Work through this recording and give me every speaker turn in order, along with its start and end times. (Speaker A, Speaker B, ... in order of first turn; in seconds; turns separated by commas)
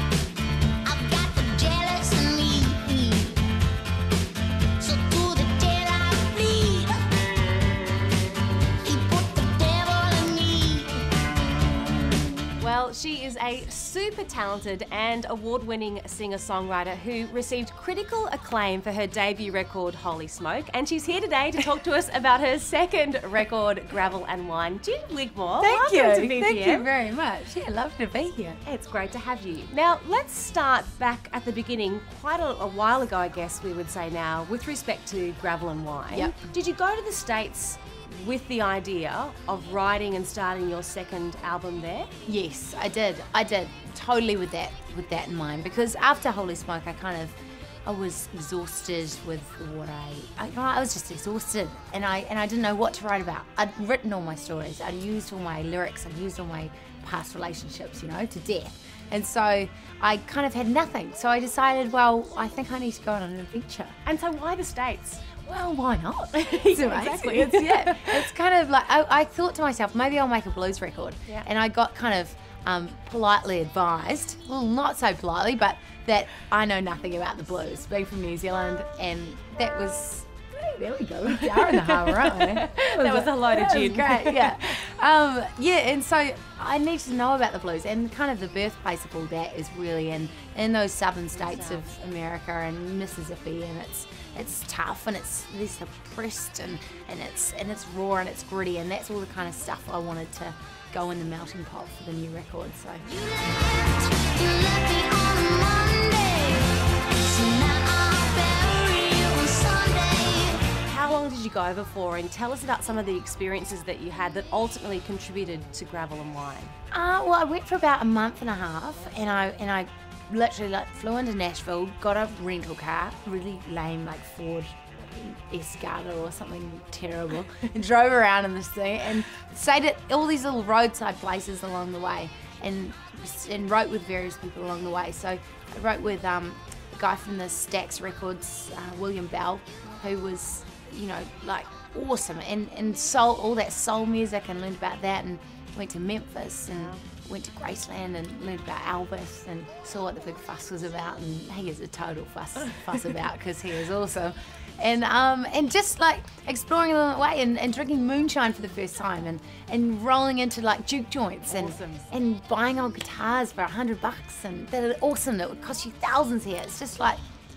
Speaker A: 0.8-3.4, Speaker A: 4.8-7.1, Speaker A: 8.8-11.0, Speaker B: 12.6-26.9, Speaker C: 25.6-28.6, Speaker B: 28.6-42.1, Speaker C: 42.2-64.0, Speaker B: 64.0-65.3, Speaker C: 65.4-103.1, Speaker B: 66.3-68.3, Speaker B: 81.5-84.8, Speaker B: 91.3-91.9, Speaker A: 103.1-110.7, Speaker B: 110.7-116.7, Speaker C: 116.9-167.2, Speaker B: 146.7-147.0, Speaker B: 161.5-162.1